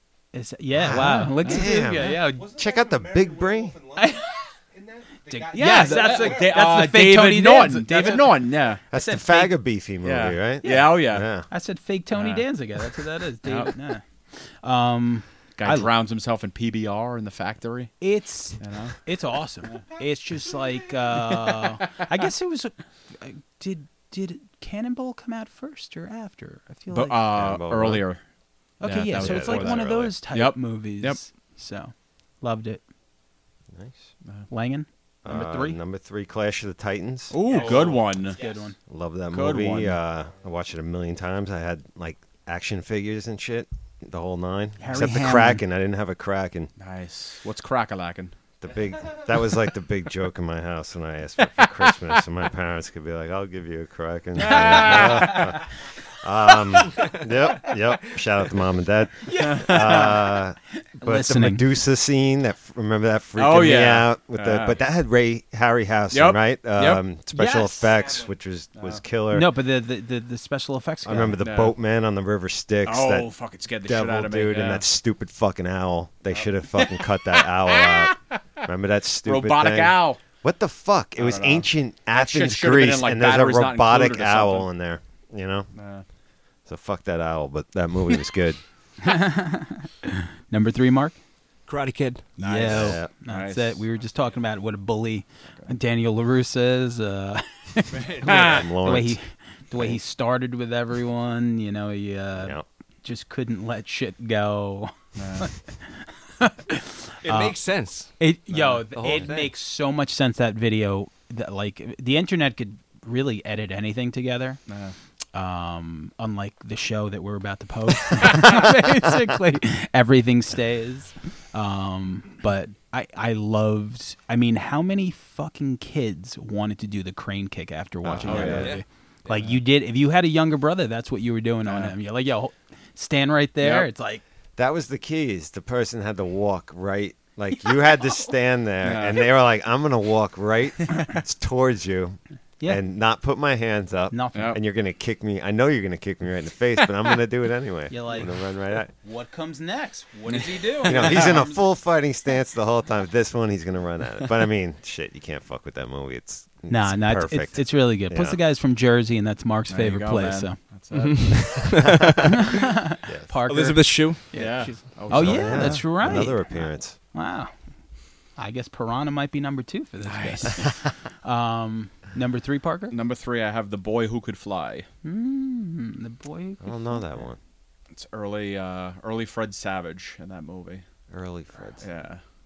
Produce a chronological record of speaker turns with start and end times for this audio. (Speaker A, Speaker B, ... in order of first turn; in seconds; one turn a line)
Speaker A: 0.3-2.5
Speaker B: 0.7-3.7
Speaker C: 0.9-2.1
Speaker D: 1.7-6.6
Speaker A: 4.0-4.5
Speaker A: 5.3-9.5
Speaker C: 5.5-8.8
Speaker B: 8.9-11.5
Speaker C: 10.0-11.3
Speaker A: 10.6-15.9
Speaker C: 12.1-12.5
Speaker C: 13.4-13.7
Speaker C: 15.6-18.0
Speaker A: 18.0-27.2
Speaker C: 18.6-19.0
Speaker C: 26.9-28.2
Speaker B: 27.3-28.0
Speaker A: 28.8-32.8
Speaker C: 28.8-31.2
Speaker B: 29.1-30.1
Speaker B: 33.7-34.0
Speaker A: 34.5-35.8
Speaker B: 35.2-37.4
Speaker C: 37.3-38.4
Speaker D: 37.4-38.7
Speaker A: 37.5-38.8
Speaker B: 38.9-46.7
Speaker C: 39.3-40.0
Speaker A: 44.8-45.6
Speaker C: 46.8-48.3
Speaker B: 48.6-69.5
Speaker C: 54.4-55.5
Speaker A: 59.2-60.3
Speaker C: 59.3-60.2
Speaker A: 61.0-61.6
Speaker C: 63.4-64.8
Speaker C: 66.1-67.0
Speaker A: 67.3-67.9
Speaker D: 67.8-68.3
Speaker C: 68.8-69.0
Speaker A: 69.3-71.3
Speaker B: 71.0-73.3
Speaker C: 71.4-71.7
Speaker C: 72.8-74.8
Speaker B: 73.8-85.7
Speaker C: 76.3-78.4
Speaker C: 79.2-80.2
Speaker C: 81.2-84.7
Speaker C: 85.7-86.0
Speaker B: 86.7-88.6
Speaker A: 89.0-91.2
Speaker E: 91.7-92.3
Speaker C: 92.4-93.8
Speaker A: 92.4-107.6
Speaker B: 92.7-93.1
Speaker C: 98.2-98.7
Speaker B: 98.2-99.2
Speaker B: 102.4-102.6
Speaker C: 105.2-105.5
Speaker E: 107.2-108.1
Speaker A: 108.2-114.6
Speaker C: 108.5-109.2
Speaker E: 108.9-109.5
Speaker C: 114.7-114.9
Speaker A: 115.3-134.2
Speaker B: 128.0-128.7
Speaker C: 128.2-128.7
Speaker E: 128.4-129.3
Speaker C: 131.6-131.9
Speaker C: 133.6-133.9
Speaker B: 134.6-148.9
Speaker C: 138.8-139.2
Speaker A: 144.1-144.5
Speaker C: 144.3-144.6
Speaker A: 147.9-148.4
Speaker A: 149.0-151.6
Speaker C: 150.3-151.3
Speaker B: 150.8-158.4
Speaker A: 156.7-160.6
Speaker C: 159.7-161.7
Speaker E: 160.9-162.4
Speaker A: 162.5-167.5
Speaker B: 163.1-163.3
Speaker E: 163.4-164.8
Speaker C: 164.3-166.2
Speaker B: 165.1-166.9
Speaker A: 168.3-172.9
Speaker C: 170.0-170.6
Speaker C: 172.9-174.9
Speaker A: 175.0-177.1
Speaker B: 176.6-177.4
Speaker C: 177.9-180.8
Speaker B: 181.1-181.8
Speaker C: 181.8-182.2